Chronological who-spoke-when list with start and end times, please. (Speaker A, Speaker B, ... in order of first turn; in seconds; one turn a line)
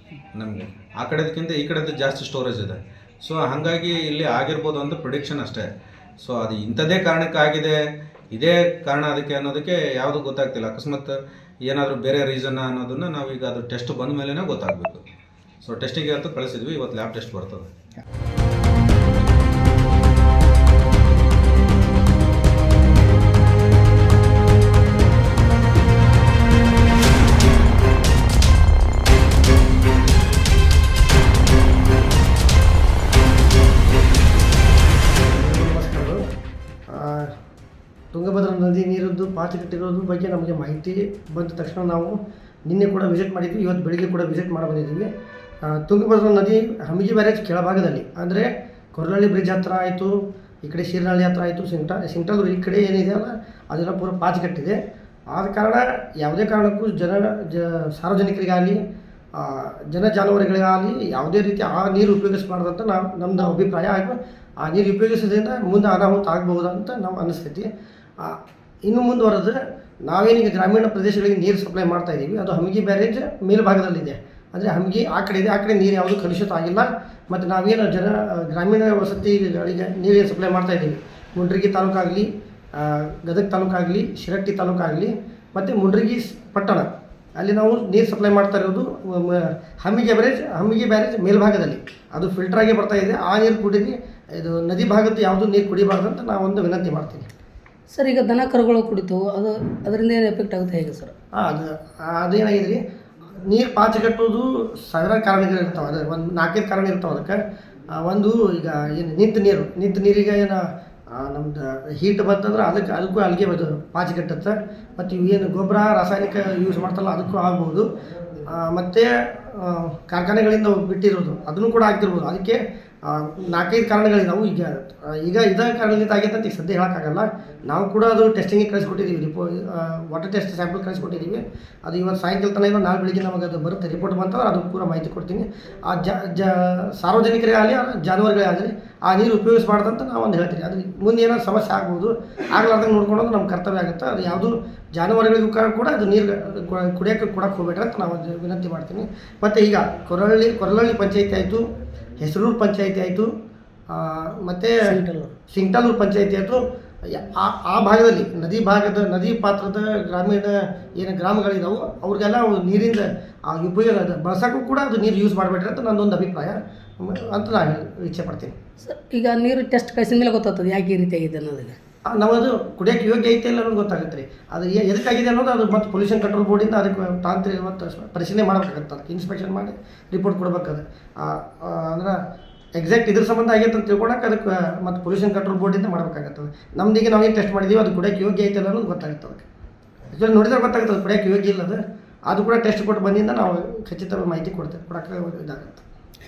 Speaker A: 0.3-5.7
Speaker A: 6.2-7.8
Speaker A: 8.3-15.0
Speaker A: 15.6-17.7
Speaker B: 35.2-36.2
Speaker B: 36.9-37.3
Speaker B: 38.1-42.2
Speaker B: 42.7-45.1
Speaker B: 45.7-54.8
Speaker B: 55.3-58.8
Speaker B: 59.4-67.7
Speaker B: 68.2-69.6
Speaker B: 70.1-97.3
Speaker C: 97.9-101.1
Speaker B: 101.4-102.8
Speaker B: 103.5-107.4
Speaker B: 108.0-110.6
Speaker B: 111.2-117.9
Speaker B: 118.5-151.6
Speaker B: 152.2-153.3
Speaker B: 153.9-154.7
Speaker C: 154.8-155.4
Speaker B: 155.5-168.5
Speaker C: 168.8-171.8
Speaker B: 172.1-182.2
Speaker B: 182.8-189.5
Speaker B: 190.1-195.8